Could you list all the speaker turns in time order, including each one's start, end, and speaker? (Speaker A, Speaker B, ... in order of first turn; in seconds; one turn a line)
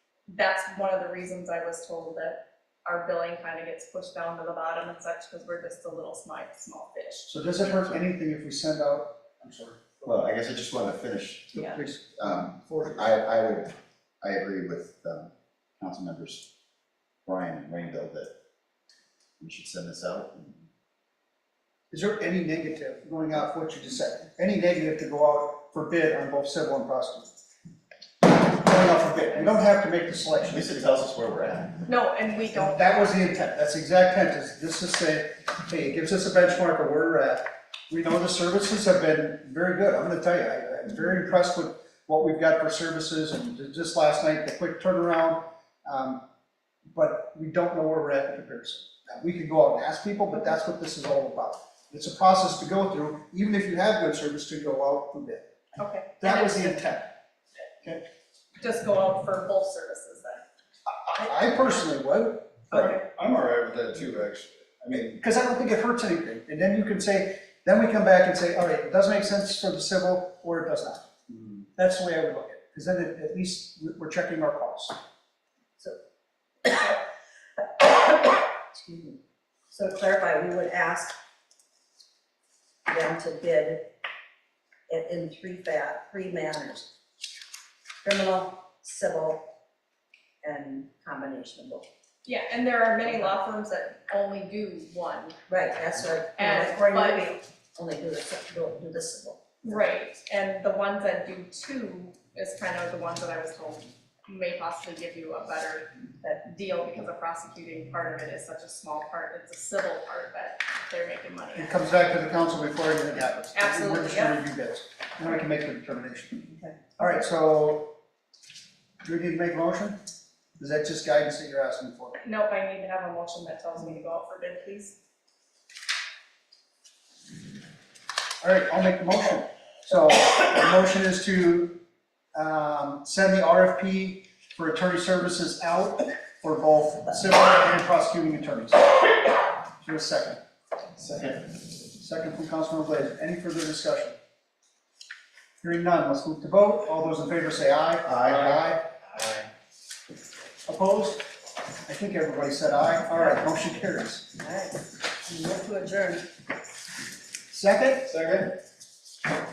Speaker A: 0.3-7.3
Speaker B: 7.3-10.1
Speaker C: 10.1-11.6
Speaker B: 11.5-13.1
Speaker A: 11.6-11.8
Speaker C: 12.2-16.5
Speaker C: 17.3-18.3
Speaker C: 19.4-20.7
Speaker B: 21.9-27.3
Speaker B: 28.4-30.7
Speaker C: 30.5-31.8
Speaker A: 31.9-33.1
Speaker B: 32.5-46.2
Speaker B: 46.9-55.5
Speaker A: 55.8-56.8
Speaker B: 56.2-57.1
Speaker A: 58.6-60.4
Speaker B: 60.9-63.0
Speaker A: 62.7-63.0
Speaker D: 63.0-65.1
Speaker B: 65.1-71.1
Speaker B: 71.8-75.0
Speaker E: 76.6-77.0
Speaker E: 77.6-79.2
Speaker E: 79.7-81.2
Speaker E: 82.9-83.8
Speaker E: 84.9-86.9
Speaker E: 88.0-89.4
Speaker E: 90.4-91.8
Speaker A: 92.2-95.4
Speaker E: 95.5-99.8
Speaker A: 96.4-97.3
Speaker A: 99.6-111.7
Speaker B: 111.6-117.9
Speaker A: 113.5-114.4
Speaker B: 119.0-120.0
Speaker B: 120.6-122.2
Speaker A: 122.2-125.0
Speaker B: 128.4-131.8
Speaker B: 132.3-139.1
Speaker B: 139.8-140.4
Speaker C: 141.0-141.4
Speaker B: 142.0-144.2
Speaker B: 145.6-148.8
Speaker C: 148.1-148.5
Speaker C: 149.2-149.5
Speaker B: 150.7-151.2
Speaker B: 151.9-154.3
Speaker E: 154.4-156.3
Speaker B: 157.5-158.1
Speaker C: 158.1-158.5